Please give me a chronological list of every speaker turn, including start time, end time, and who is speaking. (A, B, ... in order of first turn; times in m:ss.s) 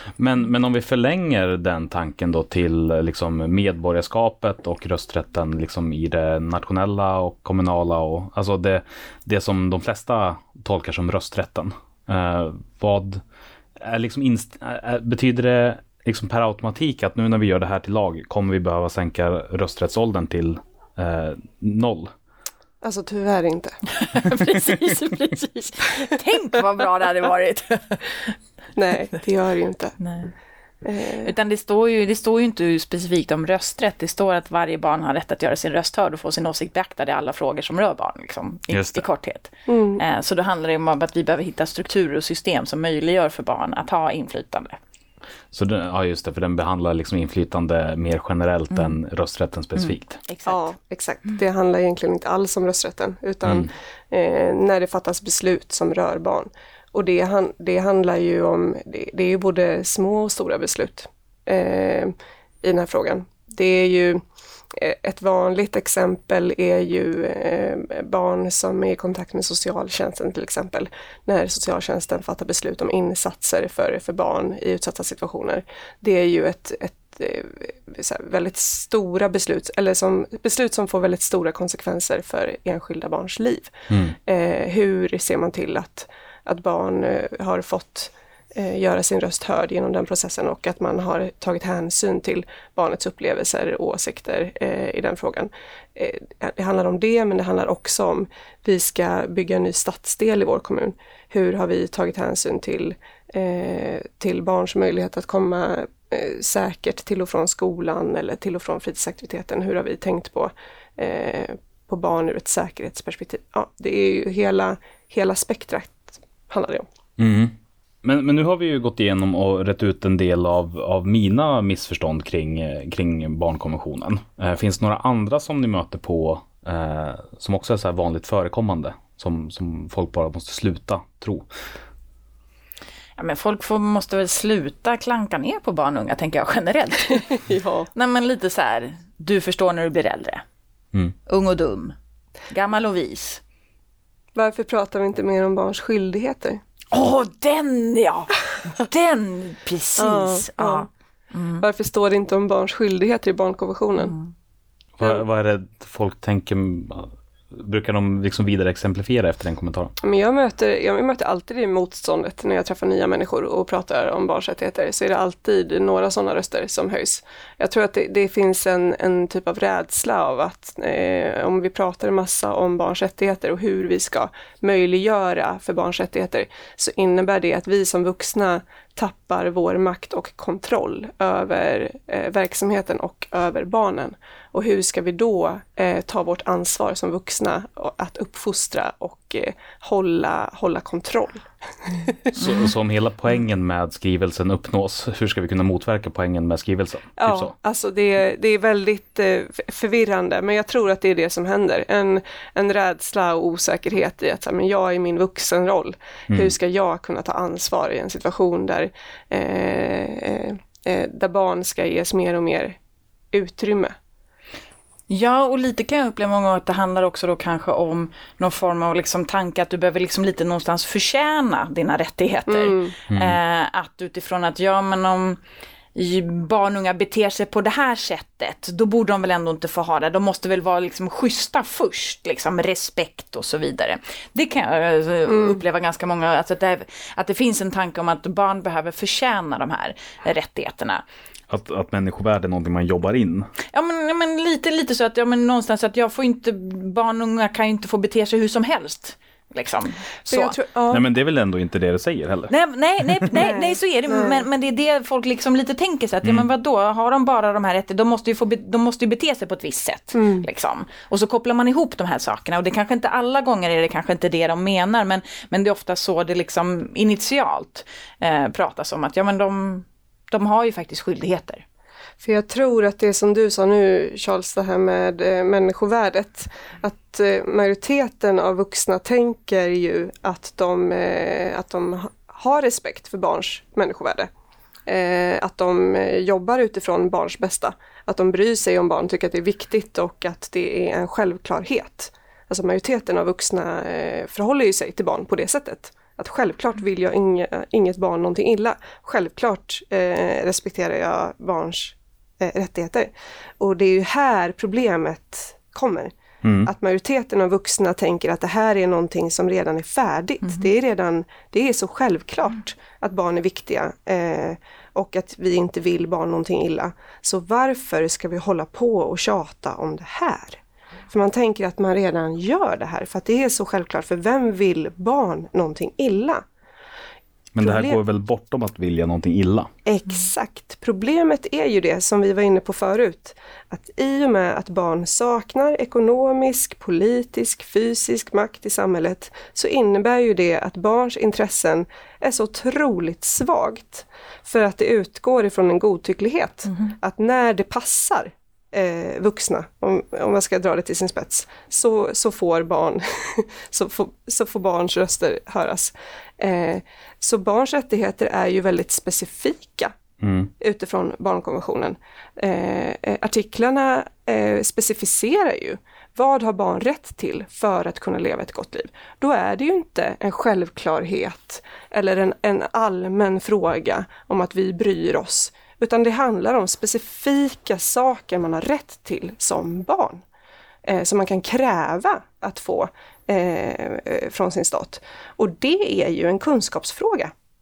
0:00.2-0:13.2 A
0:13.8-0:22.1 A
0:22.8-0:23.8 B
0:23.9-0:28.4 C
0:28.8-0:30.0 B
0:30.0-0:30.3 C
0:30.8-0:31.3 B
0:31.2-0:44.8 C
0:38.7-0:39.1 A
0:39.7-0:40.0 B
0:45.5-0:50.2 A
0:49.8-0:50.7 C
0:50.5-1:04.2 B
0:53.4-0:53.7 A
1:04.7-1:56.9 B
1:23.9-1:24.2 A
1:57.2-2:11.5 A
2:13.2-2:17.4 C
2:17.3-2:17.9 B
2:18.0-2:20.4 C
2:21.3-2:22.0 C
2:22.5-2:23.4 C
2:24.4-2:26.6 B
2:26.9-2:31.6 C
2:30.0-2:30.9 B
2:31.6-2:34.2 B
2:34.0-2:34.3 C
2:35.0-2:39.9 A
2:40.0-3:12.3 B
3:12.3-3:17.5 A
3:17.2-3:32.8 B
3:33.3-3:34.0 B
3:35.1-3:45.4 C
3:42.5-3:43.0 B
3:43.1-3:43.4 A
3:46.0-4:01.0 C
3:55.3-3:55.6 B
4:01.5-4:03.5 A
4:03.7-4:10.6 C
4:10.3-4:11.0 B
4:10.9-4:12.5 A
4:12.5-4:31.6 C
4:13.4-4:14.5 B
4:20.1-4:20.5 B
4:32.2-4:44.3 B
4:44.9-5:06.1 B
5:06.4-5:06.7 A
5:06.6-5:26.4 B
5:27.6-5:29.7 A
5:27.6-5:28.0 B
5:29.9-5:59.9 B
6:00.2-6:00.5 A
6:00.6-6:20.2 B
6:20.8-6:27.3 B